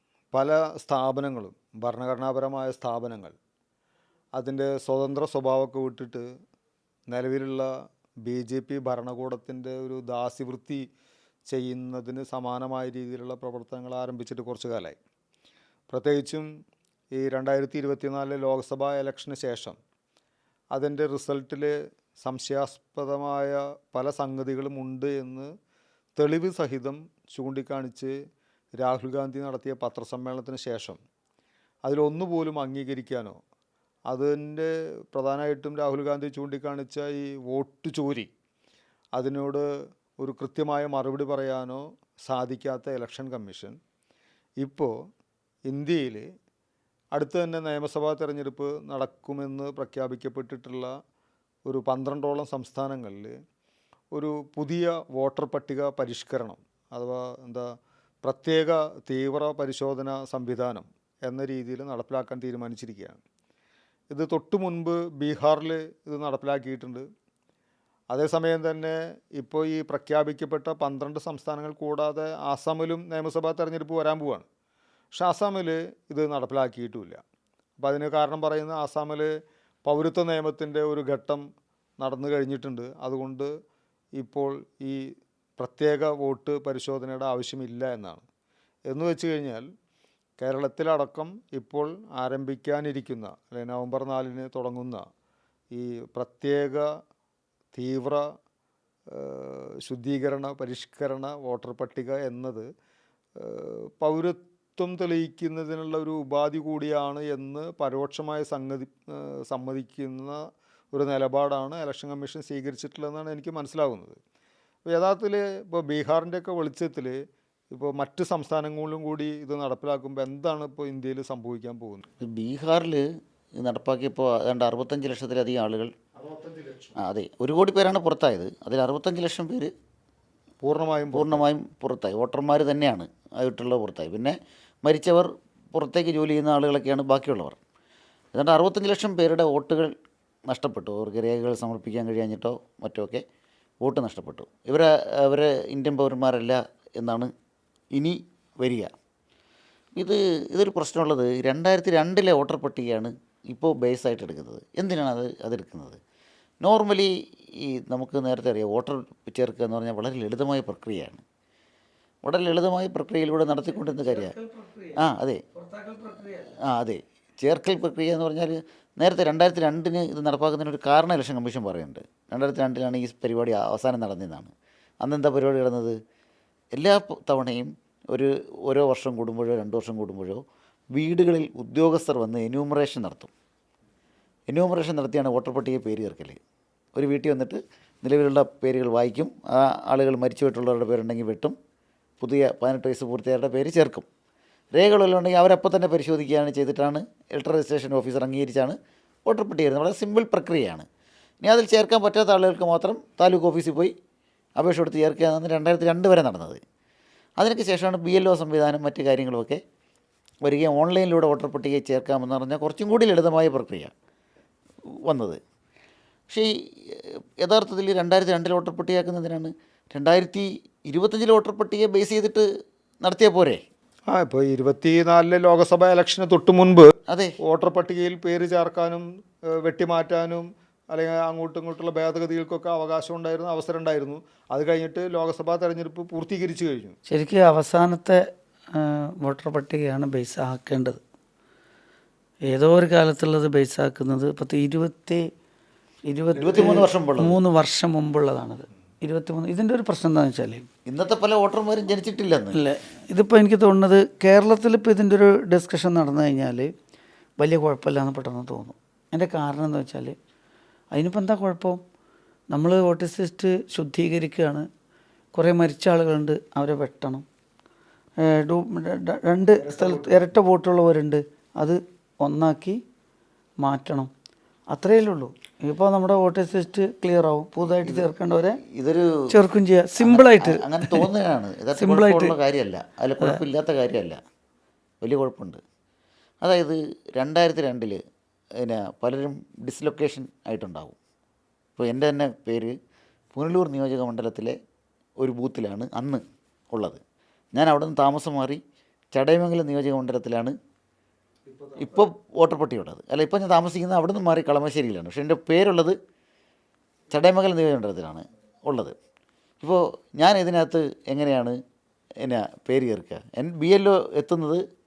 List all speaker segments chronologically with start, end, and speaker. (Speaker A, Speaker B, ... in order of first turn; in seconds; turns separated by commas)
Speaker A: 0.3-3.3, Speaker A: 4.3-6.3, Speaker A: 7.1-7.7, Speaker A: 8.2-10.8, Speaker A: 11.5-15.0, Speaker A: 15.9-16.5, Speaker A: 17.1-19.8, Speaker A: 20.7-25.5, Speaker A: 26.1-28.1, Speaker A: 28.8-31.0, Speaker A: 31.8-33.4, Speaker A: 34.1-38.3, Speaker A: 39.1-43.8, Speaker A: 44.6-45.0, Speaker A: 45.7-46.3, Speaker A: 47.1-50.9, Speaker A: 51.6-53.4, Speaker A: 54.1-63.2, Speaker A: 64.1-67.1, Speaker A: 68.1-74.4, Speaker A: 75.1-77.2, Speaker A: 77.8-79.3, Speaker A: 79.8-81.5, Speaker A: 82.0-83.5, Speaker A: 84.2-85.0, Speaker A: 85.6-88.2, Speaker A: 88.9-89.7, Speaker A: 90.4-95.0, Speaker A: 95.7-96.8, Speaker A: 97.7-98.2, Speaker A: 99.1-102.7, Speaker A: 103.4-114.2, Speaker A: 114.8-122.1, Speaker B: 122.2-123.0, Speaker B: 123.6-125.9, Speaker A: 126.2-127.0, Speaker B: 127.0-129.7, Speaker A: 130.6-131.4, Speaker B: 131.1-137.6, Speaker B: 138.3-139.9, Speaker B: 140.5-143.2, Speaker B: 143.8-147.3, Speaker B: 147.9-148.9, Speaker B: 150.0-156.0, Speaker B: 156.6-161.2, Speaker B: 162.2-164.3, Speaker C: 163.9-165.0, Speaker B: 164.9-165.4, Speaker C: 165.6-166.5, Speaker B: 166.6-176.0, Speaker B: 176.7-180.4, Speaker B: 180.9-183.3, Speaker B: 184.5-186.4, Speaker B: 186.9-191.6, Speaker B: 192.2-194.1, Speaker B: 194.7-200.8, Speaker B: 201.4-203.9, Speaker B: 204.6-206.6, Speaker B: 207.4-209.6, Speaker B: 210.4-213.9, Speaker B: 215.1-215.4, Speaker B: 216.3-222.5, Speaker B: 223.0-223.6, Speaker A: 224.1-236.9, Speaker B: 227.1-227.3, Speaker C: 237.1-241.0, Speaker C: 242.5-245.3, Speaker C: 246.1-250.7, Speaker B: 246.3-247.4, Speaker B: 250.9-252.6, Speaker C: 252.5-256.7, Speaker C: 257.4-260.1, Speaker C: 260.9-261.8, Speaker C: 262.5-264.7, Speaker C: 265.3-267.2, Speaker C: 268.2-272.8, Speaker A: 269.6-270.2, Speaker C: 273.6-274.1, Speaker C: 274.7-278.6, Speaker B: 277.8-278.1, Speaker B: 278.6-279.2, Speaker C: 279.3-281.1, Speaker B: 280.0-284.2, Speaker C: 281.8-282.3, Speaker B: 285.0-285.6, Speaker B: 286.4-288.0, Speaker B: 288.6-290.9, Speaker B: 291.8-292.7, Speaker B: 293.3-294.6, Speaker B: 295.2-297.0, Speaker B: 297.5-298.6, Speaker B: 299.1-300.5, Speaker B: 301.7-306.0, Speaker B: 307.1-308.9, Speaker B: 309.6-311.6, Speaker B: 312.2-314.6